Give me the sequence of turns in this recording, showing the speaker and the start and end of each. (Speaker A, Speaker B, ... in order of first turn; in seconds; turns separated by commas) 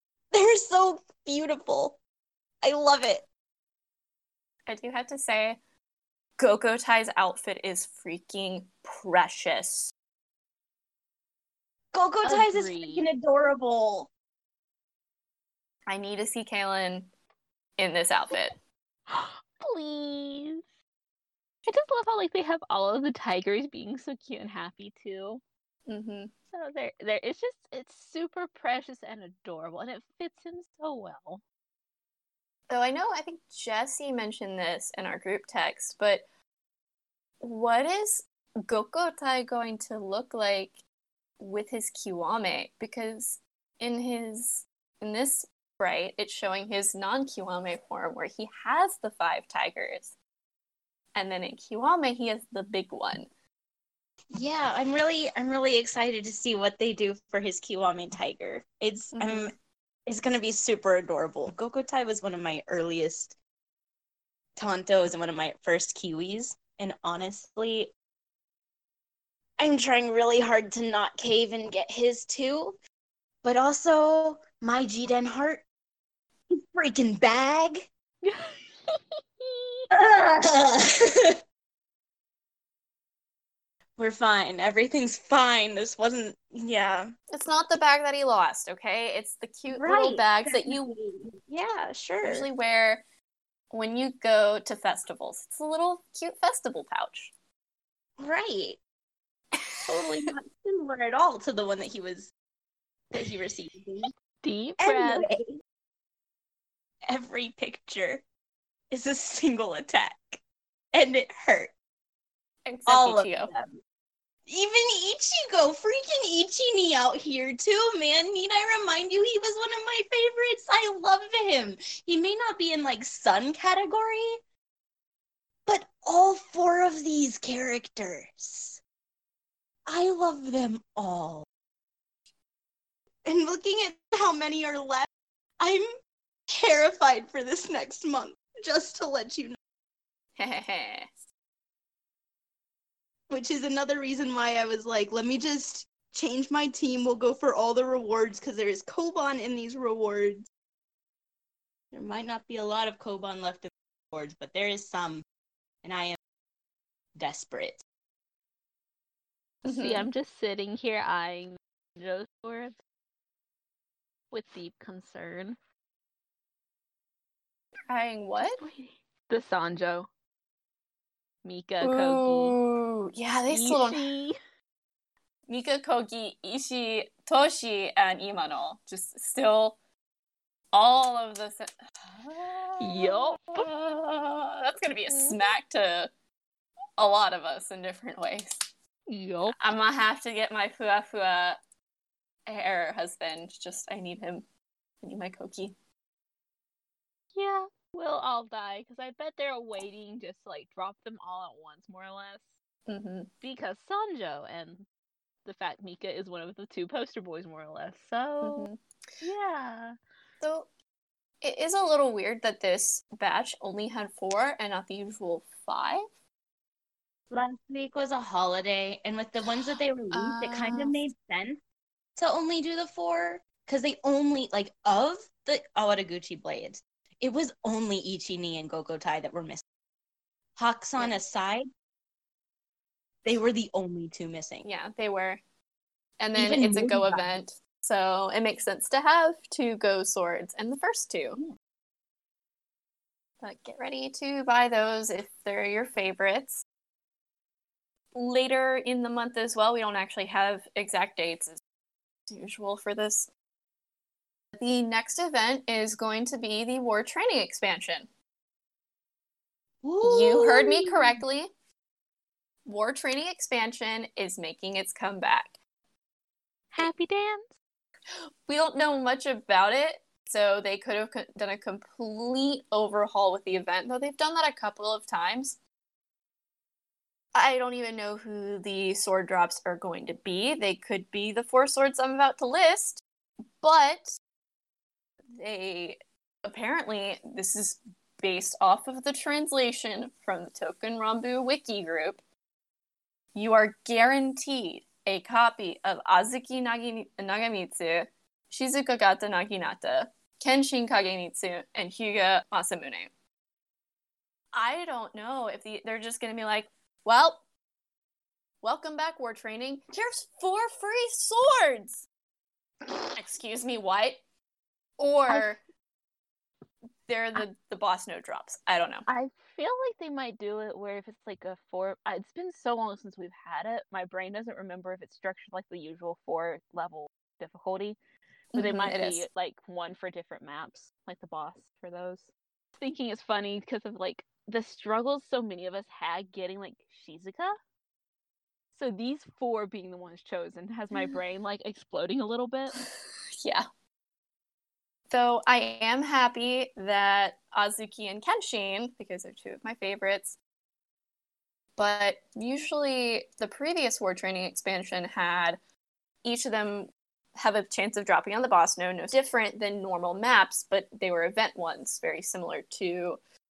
Speaker A: 0.3-2.0, Speaker A: 2.6-3.2, Speaker B: 4.7-5.6, Speaker B: 6.4-9.9, Speaker A: 11.9-14.1, Speaker C: 12.2-13.1, Speaker B: 15.9-17.1, Speaker B: 17.8-18.6, Speaker C: 19.1-20.6, Speaker C: 21.6-25.4, Speaker B: 25.9-26.3, Speaker C: 26.5-31.4, Speaker B: 32.7-36.2, Speaker B: 37.4-40.8, Speaker B: 41.4-50.1, Speaker B: 51.1-53.3, Speaker A: 54.3-59.5, Speaker B: 59.1-59.5, Speaker A: 60.0-63.4, Speaker A: 64.6-67.9, Speaker A: 69.6-72.8, Speaker A: 73.4-75.6, Speaker A: 76.5-77.9, Speaker C: 78.2-79.9, Speaker A: 79.9-81.4, Speaker A: 84.0-87.1, Speaker B: 87.3-90.9, Speaker A: 89.7-92.5, Speaker B: 92.2-93.0, Speaker B: 93.7-97.3, Speaker A: 98.2-98.8, Speaker B: 99.5-100.3, Speaker A: 99.9-102.3, Speaker A: 103.1-104.1, Speaker C: 104.4-105.2, Speaker A: 104.8-105.6, Speaker A: 107.1-108.2, Speaker A: 108.9-110.4, Speaker A: 110.9-111.7, Speaker B: 112.7-113.5, Speaker A: 112.9-113.8, Speaker A: 114.5-124.4, Speaker A: 125.7-128.8, Speaker A: 129.8-131.4, Speaker A: 133.2-135.1, Speaker A: 135.6-135.9, Speaker A: 136.5-139.6, Speaker B: 140.4-141.1, Speaker A: 143.3-150.5, Speaker A: 151.9-155.2, Speaker A: 155.8-156.2, Speaker A: 157.2-157.8, Speaker B: 159.6-160.1, Speaker C: 159.7-162.8, Speaker C: 164.3-165.6, Speaker B: 167.9-168.6, Speaker C: 168.4-170.1, Speaker C: 171.4-172.6, Speaker B: 171.8-174.1, Speaker C: 173.5-174.4, Speaker B: 175.5-179.8, Speaker B: 180.7-186.1, Speaker C: 182.8-183.6, Speaker C: 185.1-185.5, Speaker B: 187.0-188.5, Speaker C: 189.1-189.6, Speaker B: 189.6-191.6, Speaker B: 192.5-194.4, Speaker B: 195.0-195.7, Speaker C: 197.3-202.5, Speaker B: 202.9-203.3, Speaker C: 203.4-204.9, Speaker C: 205.4-208.7, Speaker B: 208.4-208.8, Speaker C: 209.2-210.0, Speaker B: 210.4-210.7, Speaker B: 211.4-216.0, Speaker A: 217.3-221.6, Speaker B: 220.1-221.0, Speaker A: 222.2-229.6, Speaker A: 230.6-231.7, Speaker A: 233.2-234.6, Speaker B: 234.6-235.4, Speaker B: 236.2-241.4, Speaker A: 236.3-237.3, Speaker B: 243.4-246.6, Speaker B: 248.1-251.6, Speaker B: 252.3-253.3, Speaker B: 254.5-258.1, Speaker A: 259.8-261.2, Speaker B: 260.0-261.5, Speaker B: 262.6-265.6, Speaker C: 266.7-267.5, Speaker B: 268.4-275.6, Speaker B: 277.3-283.0, Speaker B: 283.6-284.2, Speaker B: 285.3-292.2, Speaker B: 293.3-303.1, Speaker B: 304.5-307.4, Speaker B: 308.6-312.1, Speaker B: 313.1-314.2, Speaker B: 315.0-315.6, Speaker C: 315.3-315.6, Speaker B: 317.1-319.0, Speaker C: 319.1-328.0, Speaker B: 328.5-329.3, Speaker C: 328.5-337.6, Speaker C: 338.7-342.8, Speaker B: 345.1-350.4, Speaker B: 351.8-355.6, Speaker B: 356.2-363.2